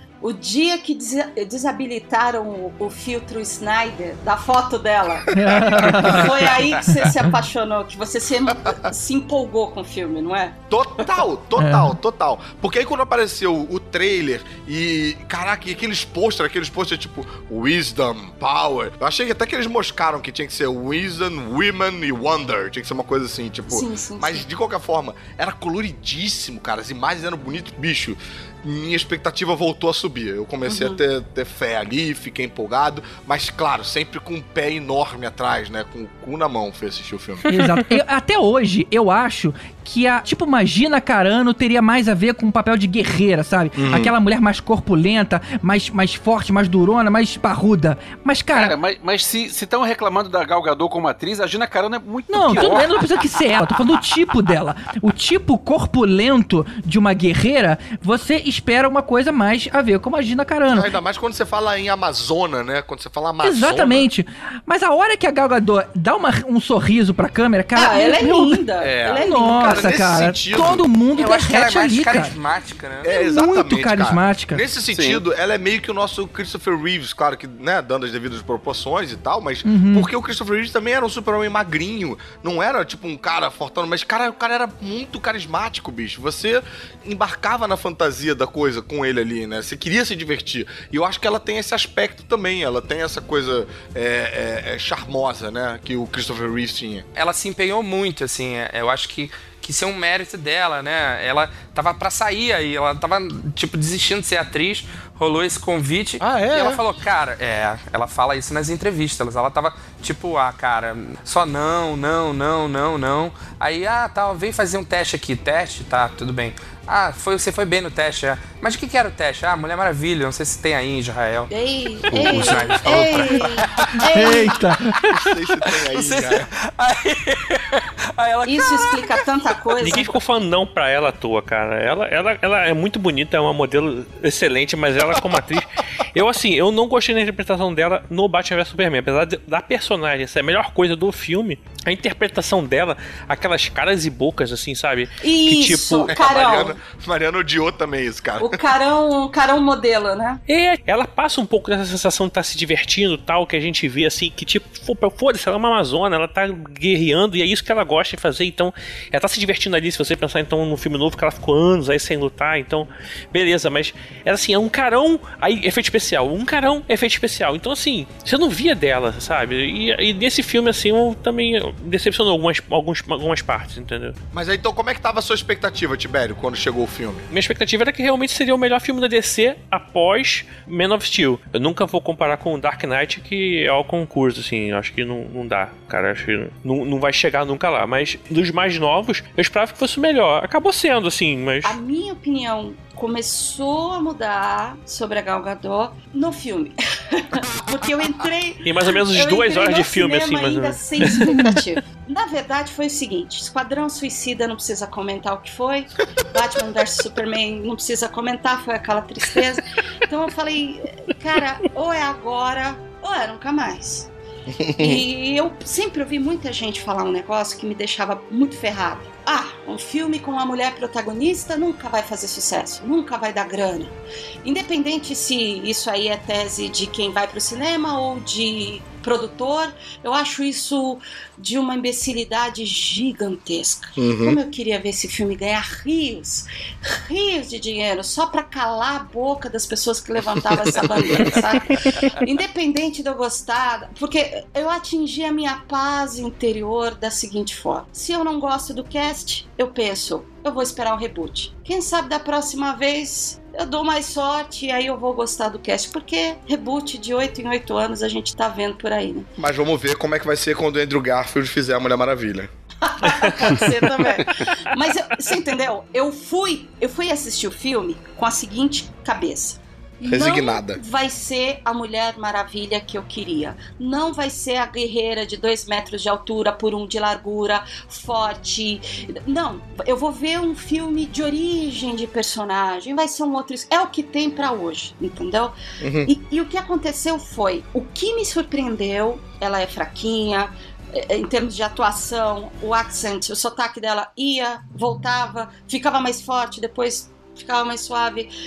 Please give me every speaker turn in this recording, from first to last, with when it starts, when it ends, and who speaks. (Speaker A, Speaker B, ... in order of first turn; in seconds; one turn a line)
Speaker A: 0.2-11.1
Speaker B: 5.3-6.3
Speaker C: 5.9-6.2
Speaker C: 10.7-37.4
Speaker B: 11.6-11.9
Speaker A: 23.7-24.4
Speaker A: 30.6-31.0
Speaker B: 37.5-48.7
Speaker C: 43.8-44.1
Speaker D: 48.5-53.1
Speaker B: 52.3-60.9
Speaker C: 60.7-64.1
Speaker B: 63.4-68.6
Speaker A: 67.7-69.9
Speaker C: 68.8-70.9
Speaker B: 69.2-72.3
Speaker E: 71.1-73.1
Speaker C: 73.0-97.0
Speaker B: 73.0-74.6
Speaker D: 74.9-75.2
Speaker B: 79.6-80.1
Speaker E: 97.2-121.5
Speaker C: 106.2-106.8
Speaker A: 121.5-124.5
Speaker E: 122.1-124.1
Speaker B: 124.1-125.0
Speaker E: 124.9-129.0
Speaker C: 125.1-126.5
Speaker A: 128.4-130.1
Speaker F: 129.8-146.1
Speaker A: 145.2-146.7
Speaker C: 146.0-148.6
Speaker A: 148.4-150.4
Speaker F: 150.5-174.2
Speaker C: 174.3-177.2
Speaker F: 177.3-191.8
Speaker A: 191.6-214.1
Speaker F: 198.6-201.5
Speaker C: 214.5-215.0
Speaker A: 214.8-259.3
Speaker C: 234.0-234.4
Speaker C: 240.4-241.2
Speaker C: 259.4-262.5
Speaker A: 262.8-298.3
Speaker C: 270.1-270.8
Speaker C: 285.8-286.1